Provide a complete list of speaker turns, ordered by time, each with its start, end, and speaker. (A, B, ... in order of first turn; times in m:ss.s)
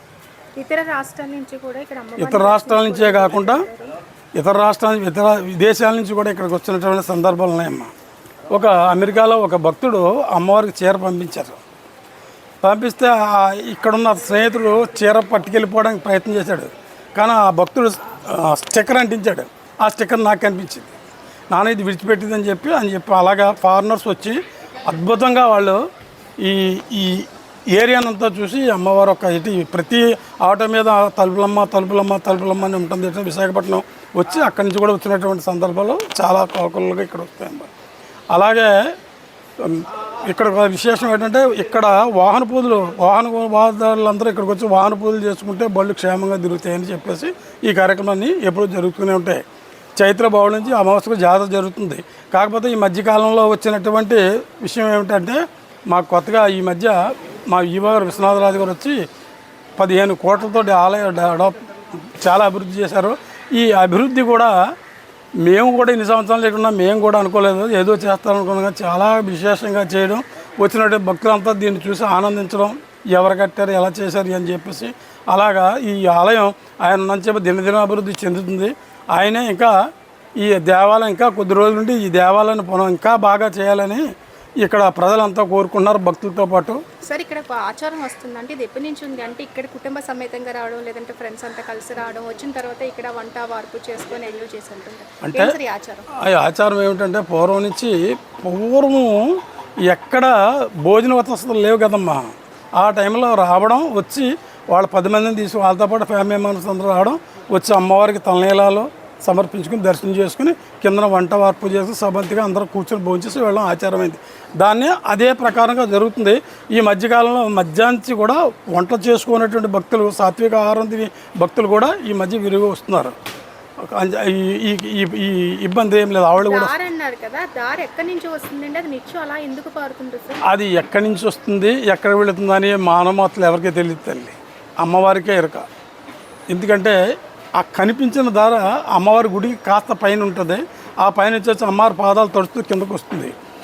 0:00.6-0:04.0 A
0:02.2-0:03.6 B
0:04.4-0:07.9 B
0:08.5-0:11.6 B
0:12.6-0:20.9 B
0:21.5-0:25.8 B
0:26.4-0:37.7 B
0:38.3-0:38.7 B
0:39.6-0:49.4 B
0:50.0-0:57.0 B
0:57.5-0:59.0 B
0:59.8-1:04.5 B
1:05.4-1:19.7 B
1:20.4-1:24.0 B
1:24.6-1:26.8 B
1:27.1-1:36.1 A
1:35.2-1:35.6 B
1:36.1-2:03.2 B
2:03.8-2:06.7 B
2:06.4-2:10.4 A
2:10.5-2:15.7 B
2:16.5-2:17.0 B
2:17.6-2:23.3 B